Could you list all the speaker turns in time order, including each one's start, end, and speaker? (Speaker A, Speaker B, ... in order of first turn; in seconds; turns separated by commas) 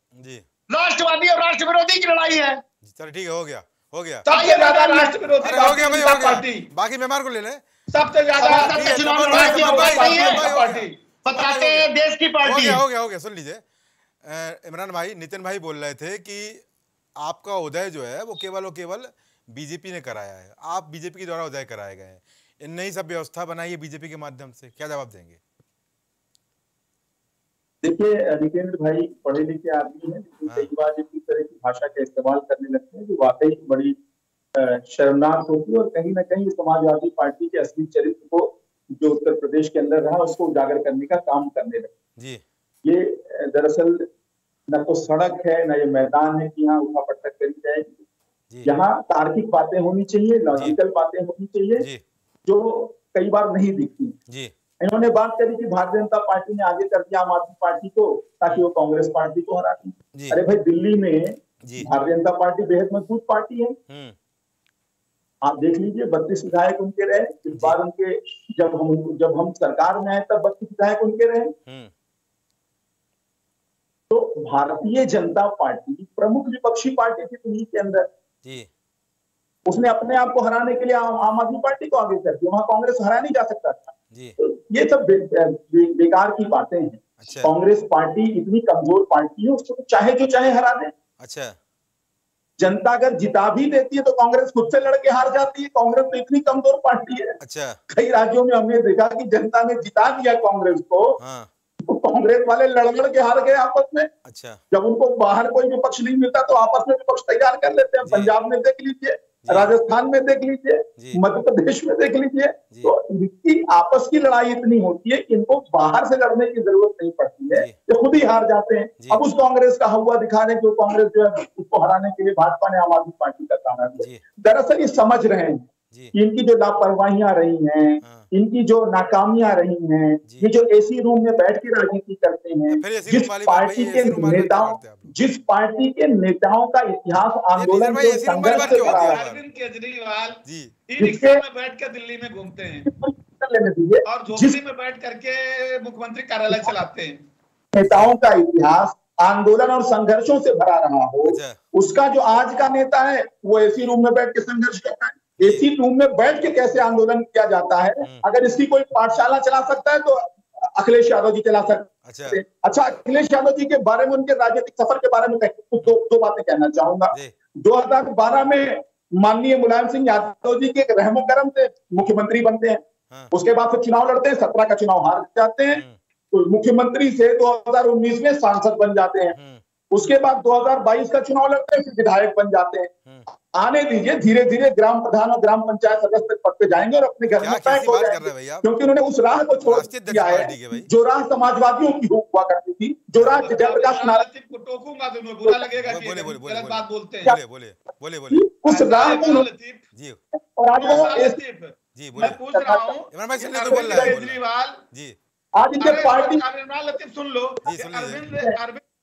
Speaker A: 0.1-0.4, Speaker B: 0.7-2.6, Speaker A: 2.8-4.2, Speaker C: 4.3-6.7, Speaker B: 4.3-5.1, Speaker A: 5.4-7.6, Speaker C: 7.9-11.0, Speaker B: 8.4-10.5, Speaker A: 8.5-11.9, Speaker B: 11.2-12.8, Speaker A: 12.4-13.6, Speaker A: 14.2-16.6, Speaker A: 17.2-25.4, Speaker D: 27.8-34.0, Speaker D: 34.5-41.9, Speaker A: 42.2-42.4, Speaker D: 42.8-44.1, Speaker D: 44.7-48.0, Speaker D: 48.6-51.9, Speaker A: 51.8-52.0, Speaker D: 52.4-54.1, Speaker D: 54.8-63.8, Speaker A: 60.1-60.4, Speaker A: 61.6-61.9, Speaker A: 63.9-64.2, Speaker D: 65.4-71.5, Speaker A: 67.5-67.8, Speaker A: 71.7-71.9, Speaker D: 74.1-78.1, Speaker A: 78.4-78.7, Speaker D: 79.7-90.9, Speaker A: 87.2-87.5, Speaker A: 91.2-91.5, Speaker D: 92.6-97.4, Speaker A: 97.4-97.8, Speaker D: 97.9-101.2, Speaker A: 101.2-101.5, Speaker D: 101.8-104.1, Speaker A: 104.2-104.6, Speaker D: 104.7-139.2, Speaker A: 108.0-108.3, Speaker A: 109.4-109.7, Speaker A: 117.5-117.8, Speaker A: 128.0-128.3, Speaker A: 130.2-130.5, Speaker A: 132.7-135.1, Speaker A: 137.5-139.4, Speaker C: 138.4-142.9, Speaker A: 140.4-140.7, Speaker D: 141.0-141.4, Speaker D: 142.8-144.6, Speaker C: 144.1-147.2, Speaker D: 147.7-179.4, Speaker A: 147.8-148.2, Speaker A: 151.2-151.6, Speaker A: 155.4-155.6, Speaker A: 162.0-162.4, Speaker A: 175.7-176.0, Speaker A: 179.3-179.6, Speaker D: 179.9-182.9, Speaker D: 183.5-194.2, Speaker A: 187.3-188.7, Speaker A: 189.6-190.9, Speaker A: 193.2-193.4, Speaker C: 193.4-197.4, Speaker A: 195.8-198.4, Speaker D: 198.3-199.5, Speaker C: 198.7-199.8, Speaker A: 199.9-200.2, Speaker D: 200.6-201.4, Speaker C: 200.7-204.8, Speaker A: 201.9-202.4, Speaker D: 202.2-203.0, Speaker A: 203.1-204.4, Speaker D: 203.6-204.2, Speaker D: 205.6-206.4, Speaker C: 205.8-208.8, Speaker A: 207.7-208.3